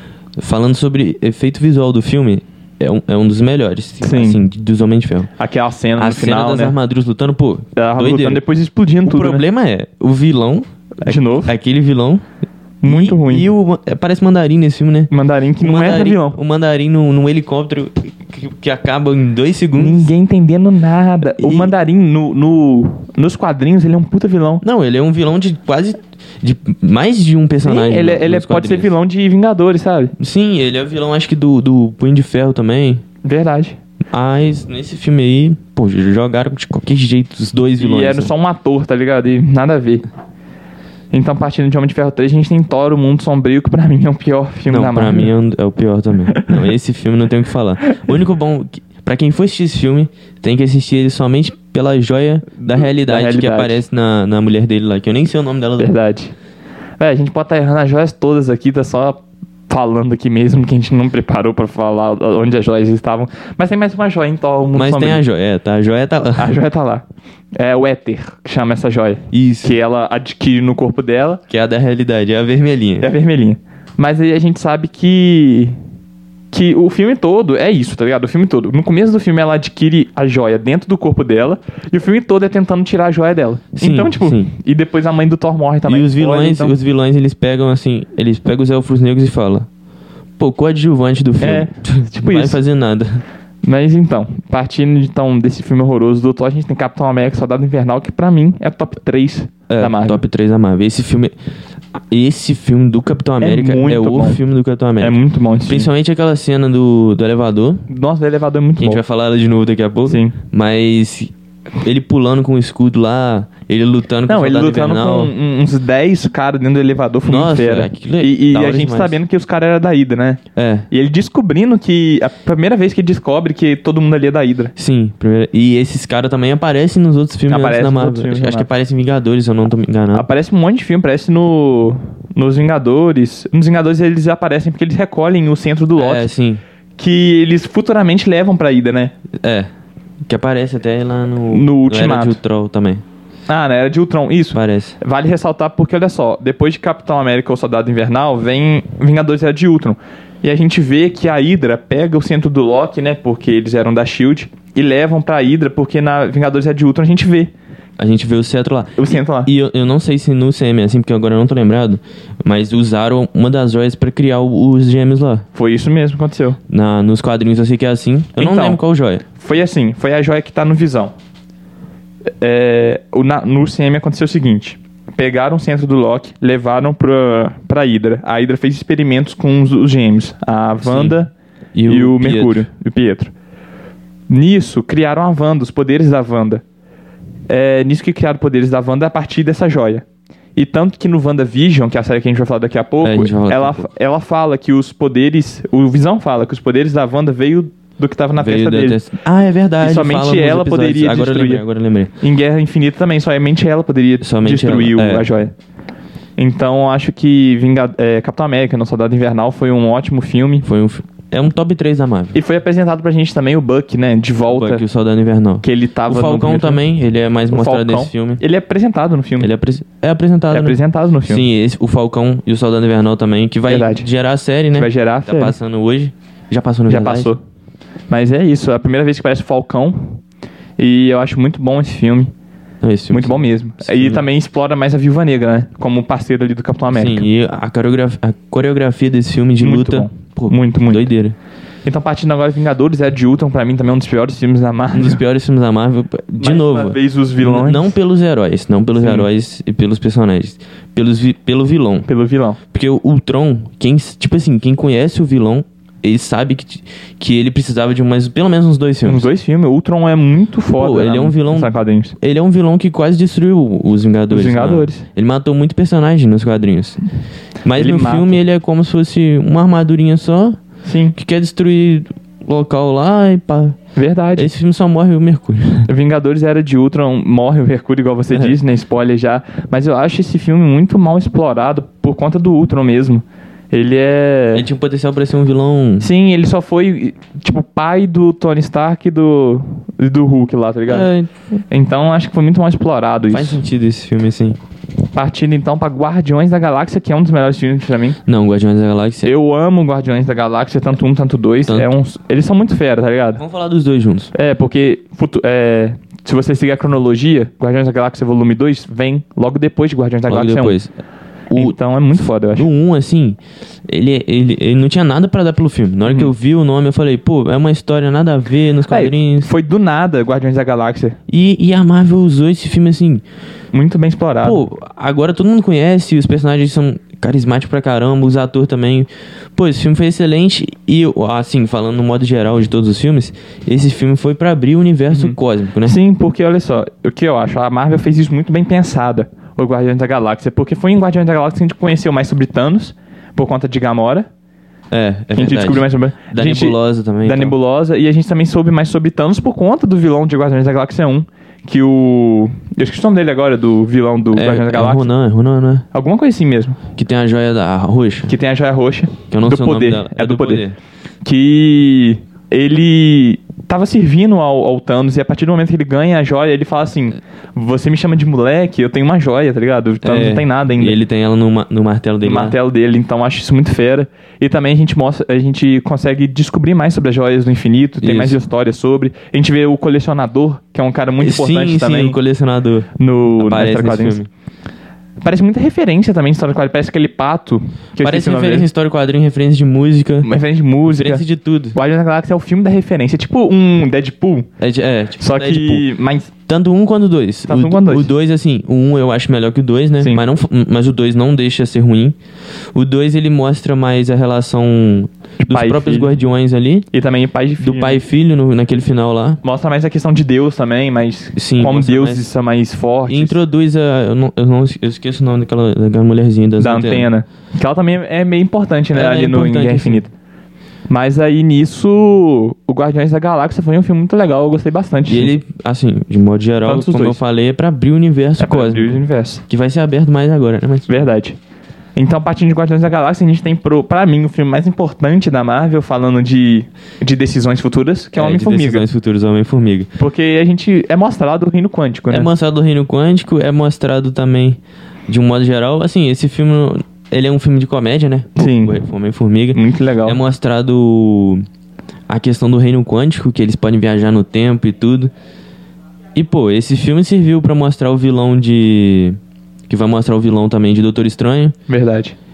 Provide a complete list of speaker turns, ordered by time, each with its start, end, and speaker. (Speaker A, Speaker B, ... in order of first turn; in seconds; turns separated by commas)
Speaker A: 0.4-5.3, Speaker B: 4.0-4.4, Speaker B: 5.4-6.7, Speaker A: 6.0-8.4, Speaker B: 7.8-9.4, Speaker A: 9.0-12.2, Speaker B: 11.0-11.5, Speaker B: 12.8-13.5, Speaker A: 12.8-20.1, Speaker B: 15.1-16.4, Speaker B: 19.8-24.6, Speaker A: 21.2-21.7, Speaker A: 24.6-28.9, Speaker B: 27.6-30.1, Speaker A: 30.2-33.0, Speaker B: 33.2-33.8, Speaker A: 34.1-38.3, Speaker B: 37.8-40.0, Speaker B: 41.1-45.3, Speaker A: 44.7-55.9, Speaker B: 52.6-53.8, Speaker B: 55.8-56.3, Speaker B: 57.0-65.2, Speaker A: 64.7-66.5, Speaker B: 66.4-67.0, Speaker B: 67.5-71.4, Speaker A: 69.3-69.8, Speaker A: 71.5-73.1, Speaker B: 73.0-75.8, Speaker B: 76.5-86.8, Speaker A: 83.8-84.5, Speaker A: 85.9-89.7, Speaker A: 90.4-93.2, Speaker B: 91.4-92.6, Speaker B: 93.7-100.2, Speaker A: 99.7-101.3, Speaker A: 101.9-107.8, Speaker B: 103.4-104.4, Speaker B: 105.0-105.9, Speaker B: 107.9-109.0, Speaker A: 108.8-115.3, Speaker B: 110.1-110.3, Speaker B: 114.3-124.7, Speaker A: 117.3-119.2, Speaker A: 120.5-120.9, Speaker A: 124.8-130.3, Speaker B: 127.5-128.7, Speaker B: 130.1-136.2, Speaker A: 136.0-136.6, Speaker B: 136.9-139.1, Speaker A: 139.4-139.7, Speaker A: 140.2-143.0, Speaker B: 141.5-142.4, Speaker B: 143.5-157.5, Speaker A: 144.5-145.0, Speaker A: 158.0-165.4, Speaker B: 159.0-159.5, Speaker B: 165.5-166.6, Speaker A: 166.7-169.2, Speaker B: 168.4-168.8, Speaker B: 169.3-171.1, Speaker B: 172.4-181.3, Speaker A: 180.8-181.2, Speaker A: 181.7-182.7, Speaker B: 181.8-183.3, Speaker B: 184.3-186.6, Speaker B: 187.5-190.0, Speaker B: 190.6-199.0, Speaker A: 193.0-193.9, Speaker A: 198.4-202.1, Speaker B: 199.8-201.6, Speaker B: 202.2-205.5, Speaker A: 204.2-205.2, Speaker B: 206.4-210.7, Speaker A: 210.6-212.3, Speaker B: 212.3-214.8, Speaker A: 214.4-218.4, Speaker B: 215.6-216.8, Speaker B: 217.5-219.5, Speaker A: 219.4-227.3, Speaker B: 220.5-221.4, Speaker B: 223.7-224.1, Speaker B: 224.7-225.5, Speaker B: 226.9-227.4, Speaker B: 228.1-230.2, Speaker B: 230.8-232.3, Speaker A: 232.8-234.2, Speaker B: 233.1-237.2, Speaker A: 236.9-241.3, Speaker B: 239.6-241.1, Speaker B: 241.8-245.2, Speaker A: 244.9-252.1, Speaker B: 246.4-247.9, Speaker B: 249.0-249.3, Speaker B: 252.1-252.6, Speaker A: 252.7-259.3, Speaker B: 259.0-262.1, Speaker A: 260.8-267.0, Speaker B: 264.3-265.1, Speaker A: 267.6-270.6, Speaker B: 267.8-268.4, Speaker B: 270.8-271.1, Speaker A: 271.1-273.8, Speaker B: 273.9-274.5, Speaker A: 274.4-275.9, Speaker B: 275.9-284.7, Speaker A: 284.5-286.1, Speaker B: 286.0-291.1, Speaker A: 290.9-291.3, Speaker B: 291.7-293.6, Speaker A: 293.3-294.6, Speaker B: 295.1-298.2, Speaker A: 298.2-299.3, Speaker B: 299.2-303.4, Speaker A: 303.4-304.3, Speaker B: 304.3-310.7, Speaker A: 310.3-310.9, Speaker A: 311.5-311.8, Speaker B: 311.5-312.7, Speaker A: 312.5-319.5, Speaker B: 316.1-316.3, Speaker B: 318.9-321.2, Speaker A: 321.3-323.2, Speaker B: 323.7-324.6, Speaker A: 324.4-336.0, Speaker B: 335.1-344.3, Speaker A: 344.9-347.5, Speaker B: 345.3-355.1, Speaker A: 354.3-355.9, Speaker B: 355.9-356.8, Speaker A: 356.9-358.3, Speaker B: 358.3-360.6, Speaker A: 359.3-360.8, Speaker B: 361.2-371.0, Speaker A: 370.0-372.5, Speaker B: 372.2-382.2, Speaker A: 378.0-378.4, Speaker A: 381.2-384.3, Speaker B: 383.0-384.2, Speaker B: 385.2-388.7, Speaker A: 388.0-390.3, Speaker B: 390.2-391.2, Speaker A: 390.9-391.8, Speaker B: 391.7-394.5, Speaker A: 394.6-395.9, Speaker B: 395.2-396.3, Speaker A: 396.5-402.1, Speaker B: 397.5-398.1, Speaker A: 402.7-406.9, Speaker B: 405.4-406.1, Speaker B: 406.9-408.0, Speaker A: 407.6-409.4, Speaker B: 409.4-413.4, Speaker A: 411.4-412.3, Speaker A: 413.1-417.1, Speaker B: 416.6-420.1, Speaker A: 418.9-420.0, Speaker B: 420.9-425.3, Speaker A: 425.1-430.9, Speaker B: 426.6-427.2, Speaker B: 428.4-429.4, Speaker B: 430.9-431.4, Speaker B: 431.9-438.9, Speaker A: 438.1-439.9, Speaker B: 440.0-442.3, Speaker A: 442.1-451.4, Speaker B: 448.4-448.8, Speaker B: 449.5-450.2, Speaker A: 452.1-455.1, Speaker A: 456.1-459.2, Speaker A: 459.7-461.5, Speaker B: 461.7-462.1